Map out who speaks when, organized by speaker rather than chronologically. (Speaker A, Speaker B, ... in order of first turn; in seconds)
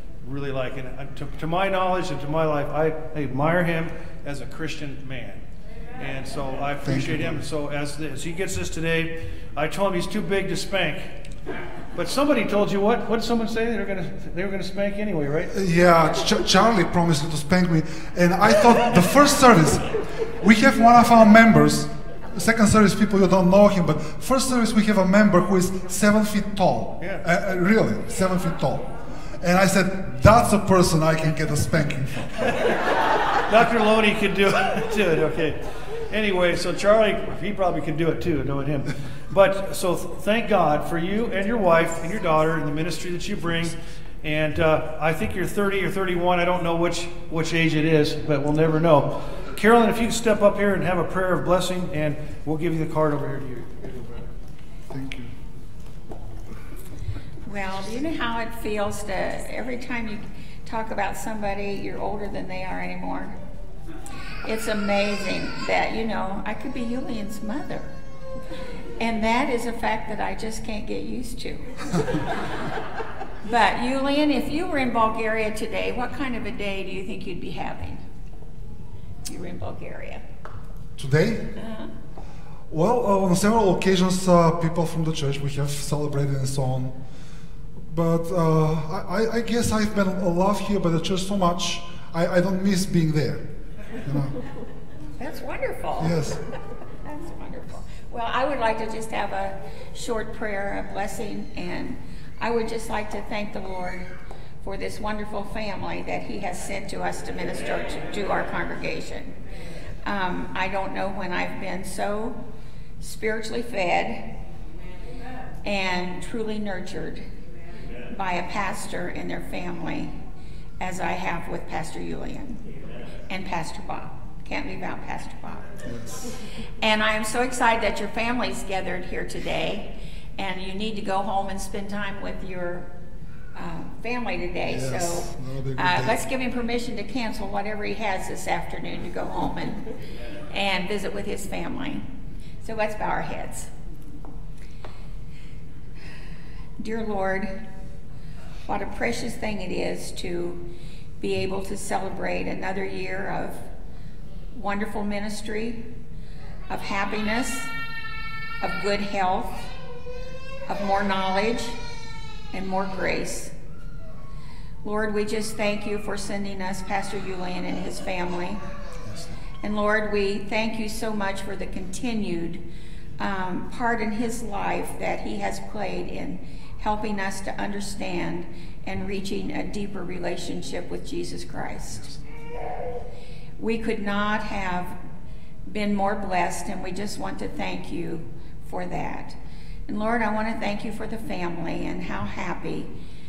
Speaker A: 0.2-5.4, 6.0-11.1, 11.9-15.5, 33.4-35.6, 36.1-54.3
Speaker B: 6.8-7.4, 15.5-28.9, 29.4-32.5, 54.9-55.3, 81.0-81.5, 82.7-86.9, 87.8-93.4, 94.0-94.3, 96.0-96.4, 125.8-126.3, 134.6-136.2, 169.1-169.4
Speaker C: 57.4-63.4, 64.4-67.9, 69.0-72.3, 73.4-78.0, 79.2-80.2, 81.6-81.9, 95.2-96.4, 97.0-104.1, 104.6-109.3, 110.0-112.4, 113.0-114.2, 115.6-117.2, 118.1-120.1, 120.8-122.6, 123.3-125.7, 126.8-132.9, 133.5-139.9, 140.5-142.1, 142.6-143.7, 146.8-147.5, 148.6-150.6, 151.2-153.7, 154.5-155.8, 156.7-157.7, 158.6-159.6, 160.7-161.8, 162.5-163.5, 164.8-168.6, 169.6-172.6, 173.2-182.1, 183.6-185.0, 185.7-189.3, 189.9-192.9